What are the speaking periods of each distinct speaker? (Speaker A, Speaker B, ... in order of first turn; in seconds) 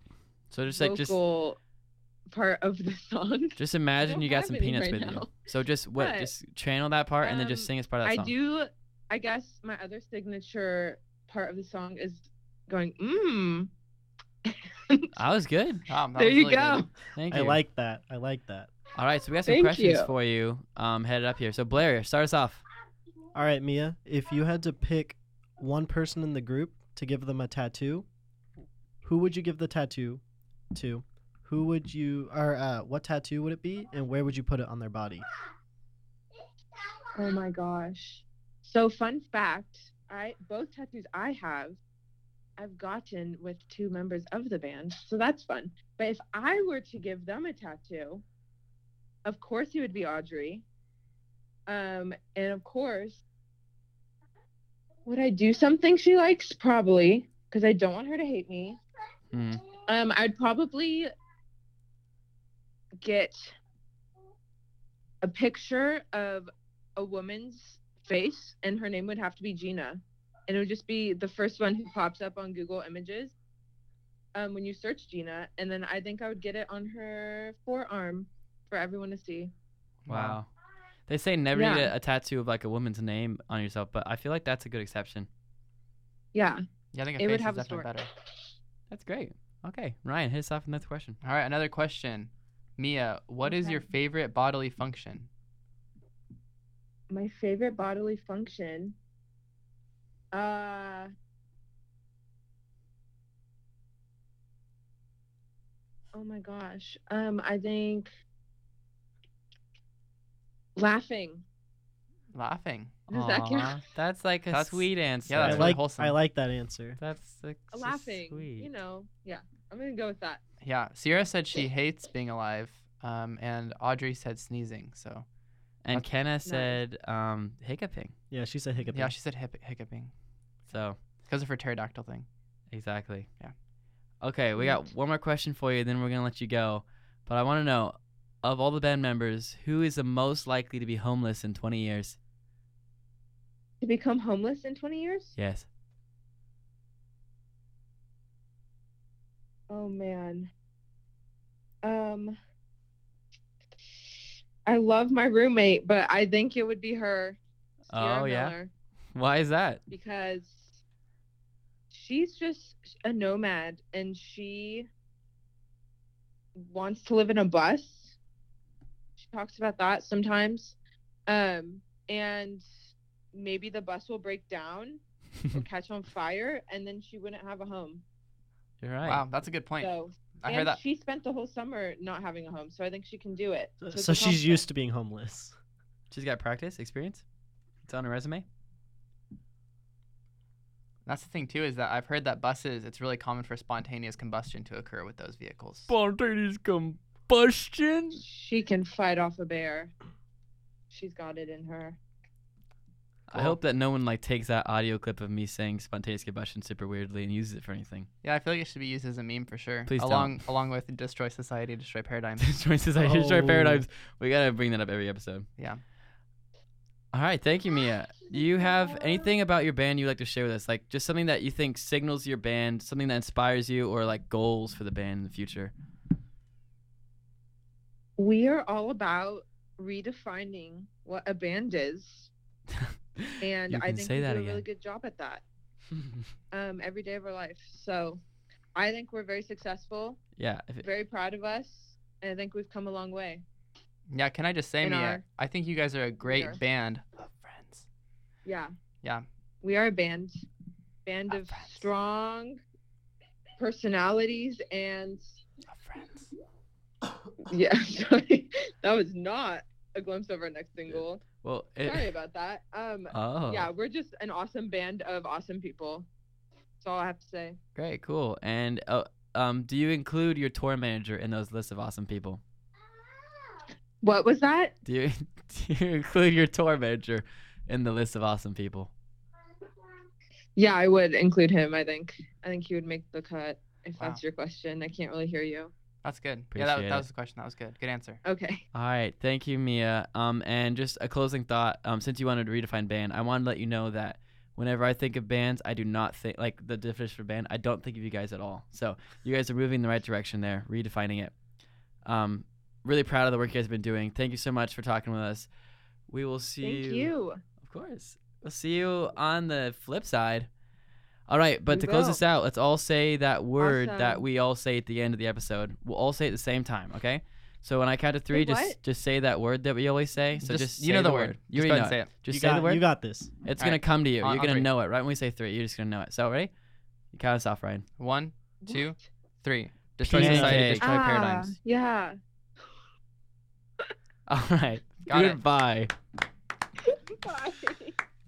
Speaker A: 0.5-1.2, 3.6-8.3, 15.2-15.8, 17.1-17.6, 19.0-22.6, 59.3-59.6, 80.1-80.5, 81.1-85.3, 88.9-91.2, 113.1-115.8, 117.0-118.7, 125.8-128.2, 130.7-131.0, 132.7-133.3, 134.2-142.2, 145.4-145.7, 157.9-158.6, 159.2-159.8, 178.8-179.2, 186.1-187.2, 187.8-188.4, 195.9-198.2, 203.3-208.1, 209.9-210.4, 212.4-215.5, 217.1-225.7, 232.7-234.6, 236.0-236.2, 240.4-240.9, 260.9-262.1, 263.1-263.7, 267.8-272.4, 274.9-278.9, 286.5-287.1, 288.7-301.3, 302.1-305.5, 306.1-307.1, 307.6-310.5, 311.3-326.5, 327.1-327.9, 330.0-330.9, 334.3-335.9
Speaker B: 0.7-1.6, 2.3-5.4, 6.0-6.3, 7.2-13.7, 14.5-15.1, 16.1-16.9, 19.5-20.1, 37.2-41.8, 42.6-48.2, 49.2-50.6, 51.7-53.2, 55.1-58.8, 59.8-61.1, 63.0-63.5, 65.2-73.3, 74.3-79.5, 81.5-81.9, 86.3-86.6, 87.2-88.0, 93.5-93.9, 97.1-99.0, 100.3-101.1, 106.1-108.1, 110.8-111.5, 113.1-113.8, 117.7-120.4, 126.5-126.8, 134.6-134.8, 143.8-145.3, 149.7-150.5, 151.8-152.4, 154.7-158.7, 159.9-160.8, 161.9-164.9, 166.6-168.2, 169.2-170.8, 171.3-172.7, 173.3-178.0, 179.8-184.6, 198.2-199.9, 200.9-202.0, 228.2-232.3, 233.4-235.4, 236.5-238.2, 238.8-240.2, 240.8-243.4, 244.8-245.2, 246.2-246.6, 248.4-248.7, 249.6-250.4, 251.1-252.6, 253.6-255.3, 257.5-261.2, 261.8-266.1, 266.8-267.6, 274.0-274.7, 280.6-285.7, 288.2-288.6, 306.6-307.4, 311.7-312.2, 313.6-314.2, 318.3-318.8, 328.6-328.9, 330.8-332.2, 337.1-338.0
Speaker C: 15.9-16.8, 80.0-80.4, 86.9-88.1, 91.2-95.3, 112.3-113.0, 114.5-116.2, 120.6-125.3, 128.9-130.1, 131.2-132.3, 179.1-180.8, 191.1-195.9, 208.2-212.5, 215.6-215.8, 244.1-247.9, 251.3-251.9, 255.7-256.3, 286.0-288.2, 320.4-322.1, 323.6-324.7, 328.0-331.6, 335.1-335.4
Speaker D: 17.3-18.7, 23.4-28.1, 29.0-35.2, 115.4-117.0, 128.3-129.1, 183.8-185.6, 213.0-213.9, 322.3-323.3, 330.1-330.8